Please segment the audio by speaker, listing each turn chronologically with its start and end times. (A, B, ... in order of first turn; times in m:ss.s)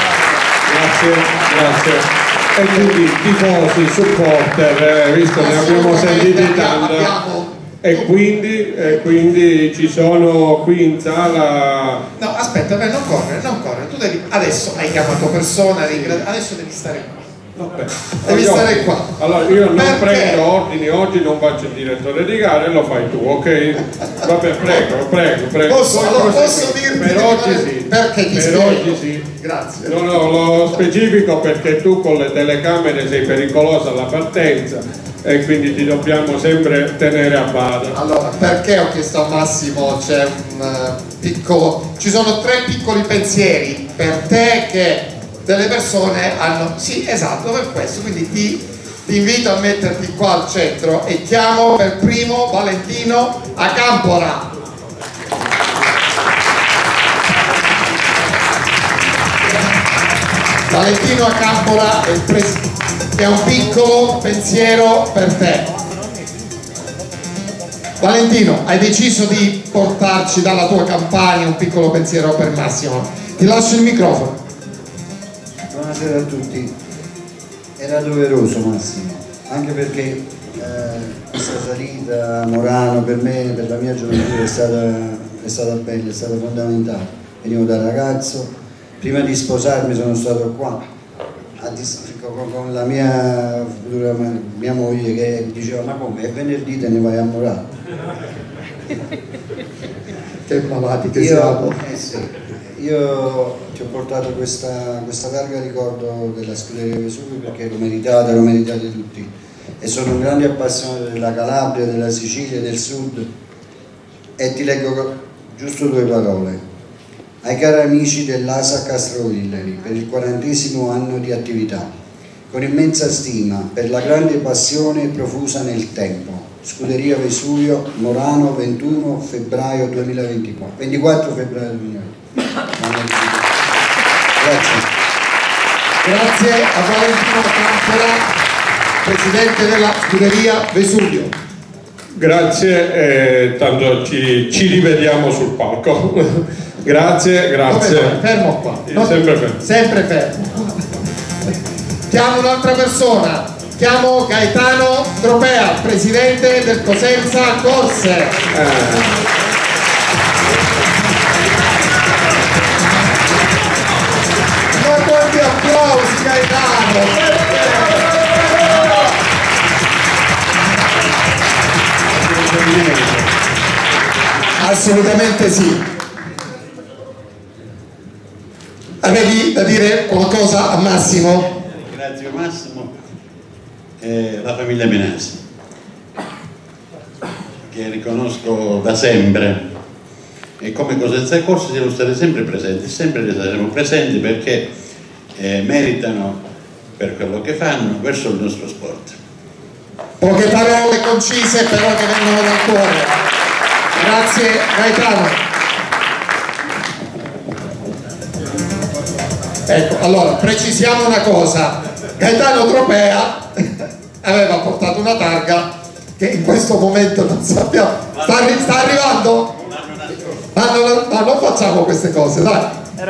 0:00.6-0:07.1 A
0:05.4-0:08.1 B
0:07.8-0:12.0 A
0:12.2-0:17.1 B
0:17.6-0:29.3 A
0:18.2-0:19.1 B
0:19.7-0:20.4 B
0:25.6-0:30.1 B
0:29.8-0:38.0 A
0:37.9-0:54.5 B
1:00.7-1:02.6 B
1:03.1-1:05.7 B
1:08.0-1:14.4 B
1:15.7-1:16.7 C
1:17.8-1:30.8 C
1:31.6-1:37.6 C
1:40.5-1:41.8 B
1:41.1-1:49.3 C
1:49.8-1:53.3 C
1:54.4-1:56.6 C
1:57.4-2:01.9 C
2:02.5-2:12.1 C
2:12.7-2:13.5 C
2:14.4-2:14.8 C
2:16.0-2:18.3 B
2:19.0-2:21.3 B
2:22.2-2:28.2 A
2:27.6-2:30.9 B
2:28.9-2:29.6 A
2:32.1-2:38.4 B
2:38.5-2:39.1 A
2:44.7-2:48.2 B
2:52.3-2:53.2 B
2:54.6-2:55.8 B
2:59.0-3:01.5 B
3:01.5-3:02.9 D
3:04.0-3:05.4 D
3:07.7-3:09.7 D
3:10.6-3:14.7 D
3:15.4-3:16.4 D
3:17.0-3:19.2 D
3:20.2-3:23.1 B
3:24.0-3:25.4 B
3:29.7-3:33.6 B
3:34.2-3:39.5 B
3:40.5-3:42.8 B